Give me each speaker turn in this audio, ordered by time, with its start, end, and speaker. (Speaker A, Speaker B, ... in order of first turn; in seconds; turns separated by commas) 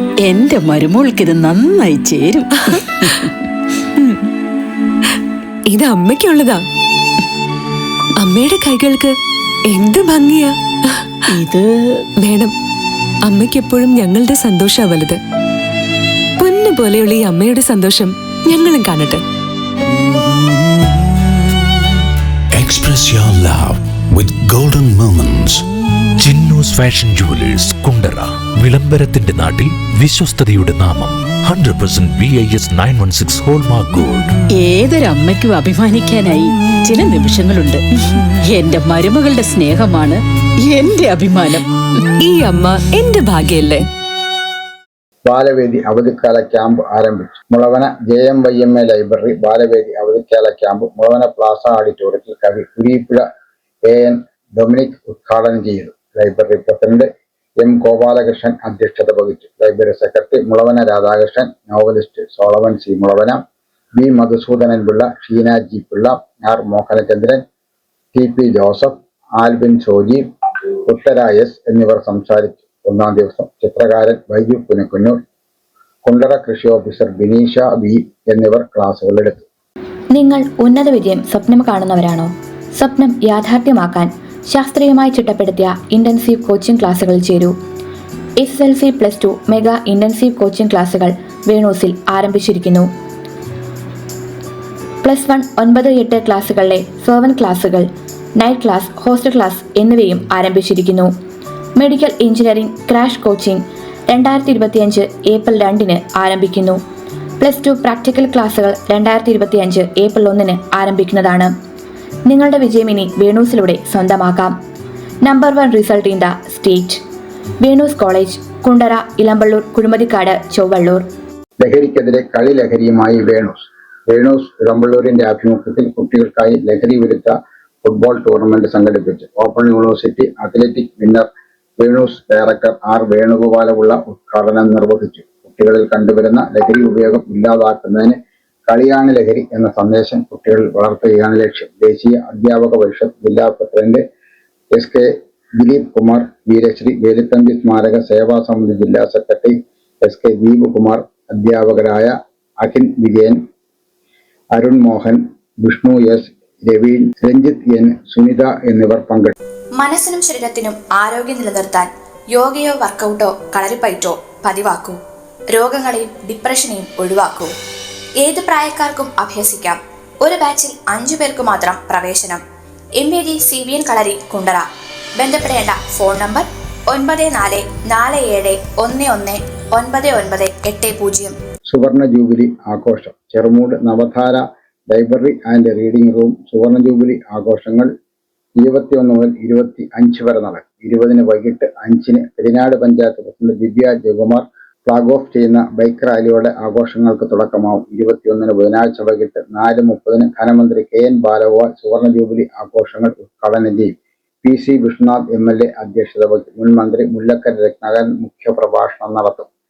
Speaker A: 0.2-3.1, Speaker B: 5.7-6.6, Speaker B: 8.2-9.1, Speaker B: 9.7-11.3, Speaker A: 11.3-11.7, Speaker B: 12.2-12.5, Speaker B: 13.3-15.2, Speaker B: 16.4-19.2, Speaker C: 22.6-25.6, Speaker C: 26.2-34.3, Speaker A: 34.5-37.8, Speaker A: 38.5-41.7, Speaker B: 42.2-43.8, Speaker D: 45.2-53.2, Speaker D: 53.9-57.1, Speaker D: 57.6-63.4, Speaker D: 64.0-67.4, Speaker D: 68.1-70.2, Speaker D: 70.9-75.2, Speaker D: 76.0-79.5, Speaker E: 80.1-87.5, Speaker E: 88.4-92.9, Speaker E: 95.0-101.1, Speaker E: 101.8-106.8, Speaker E: 107.4-111.5, Speaker E: 112.3-114.5, Speaker E: 115.2-117.0, Speaker E: 117.6-121.0, Speaker D: 121.6-131.3, Speaker D: 131.8-138.2, Speaker D: 138.7-144.0, Speaker D: 144.7-153.4, Speaker D: 154.5-159.3, Speaker E: 159.8-165.0, Speaker E: 165.5-167.5, Speaker E: 168.2-172.4, Speaker E: 173.0-181.4, Speaker D: 181.7-187.9, Speaker D: 188.6-203.9, Speaker D: 204.4-209.5